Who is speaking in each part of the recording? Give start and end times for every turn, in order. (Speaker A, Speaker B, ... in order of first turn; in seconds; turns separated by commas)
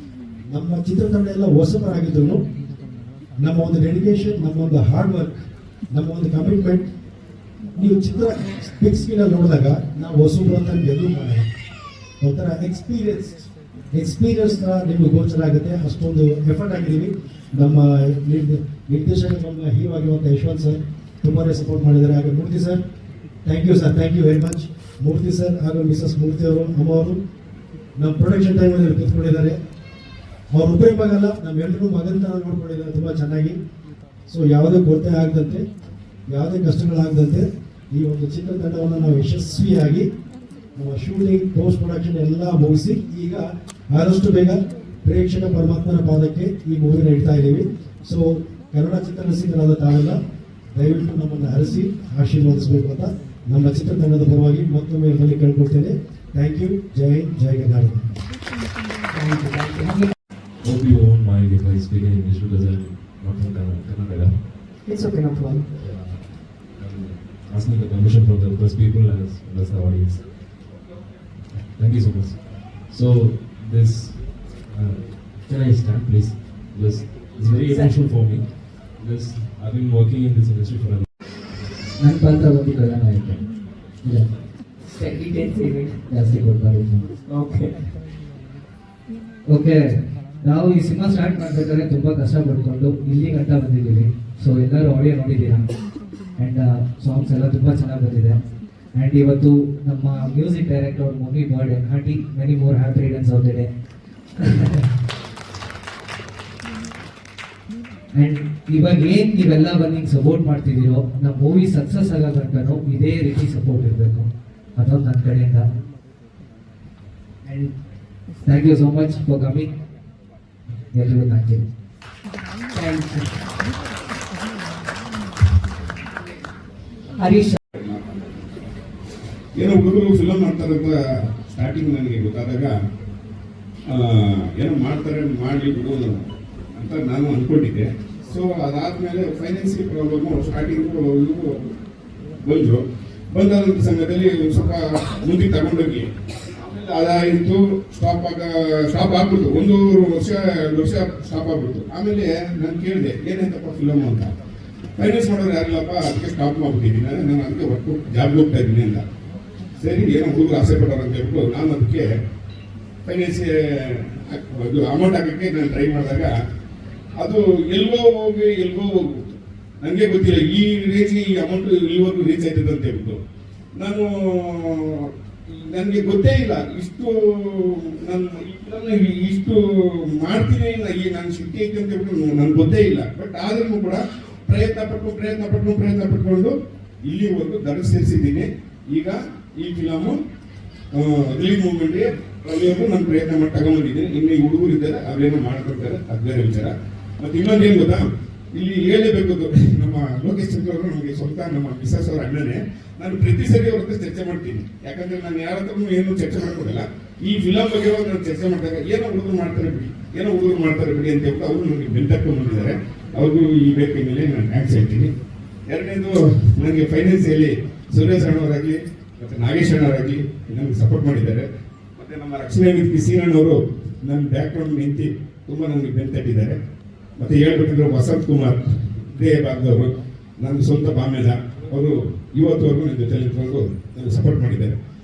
Speaker A: 0.5-2.4, Speaker A: 3.4-5.4, Speaker A: 5.9-6.9, Speaker A: 7.8-11.5, Speaker A: 12.2-13.4, Speaker A: 13.9-22.8, Speaker A: 23.4-27.2, Speaker A: 28.0-29.6, Speaker A: 30.5-33.6, Speaker A: 34.3-35.7, Speaker A: 36.3-40.1, Speaker A: 40.8-50.2, Speaker A: 50.7-58.1, Speaker B: 59.1-60.1, Speaker C: 60.6-64.8, Speaker B: 64.9-65.7, Speaker C: 65.7-70.3, Speaker C: 71.5-81.1, Speaker D: 82.0-83.4, Speaker B: 85.0-86.0, Speaker D: 86.1-87.1, Speaker B: 87.3-87.8, Speaker D: 89.5-95.7, Speaker D: 96.4-98.4, Speaker D: 99.0-103.7, Speaker D: 104.4-104.9, Speaker D: 108.2-115.7, Speaker D: 117.5-117.7, Speaker D: 118.4-119.7, Speaker D: 120.9-121.6, Speaker B: 122.7-123.4, Speaker B: 127.2-127.6, Speaker E: 127.7-128.2, Speaker E: 129.6-131.0, Speaker E: 131.5-132.7, Speaker E: 133.9-141.6, Speaker E: 142.4-142.8, Speaker E: 143.3-146.1, Speaker E: 146.6-154.3, Speaker E: 155.0-159.1, Speaker E: 159.8-162.1, Speaker E: 163.1-166.3, Speaker E: 167.2-169.2, Speaker E: 169.8-173.2, Speaker E: 173.8-190.2, Speaker E: 190.9-215.1, Speaker E: 215.7-226.6, Speaker E: 227.2-234.8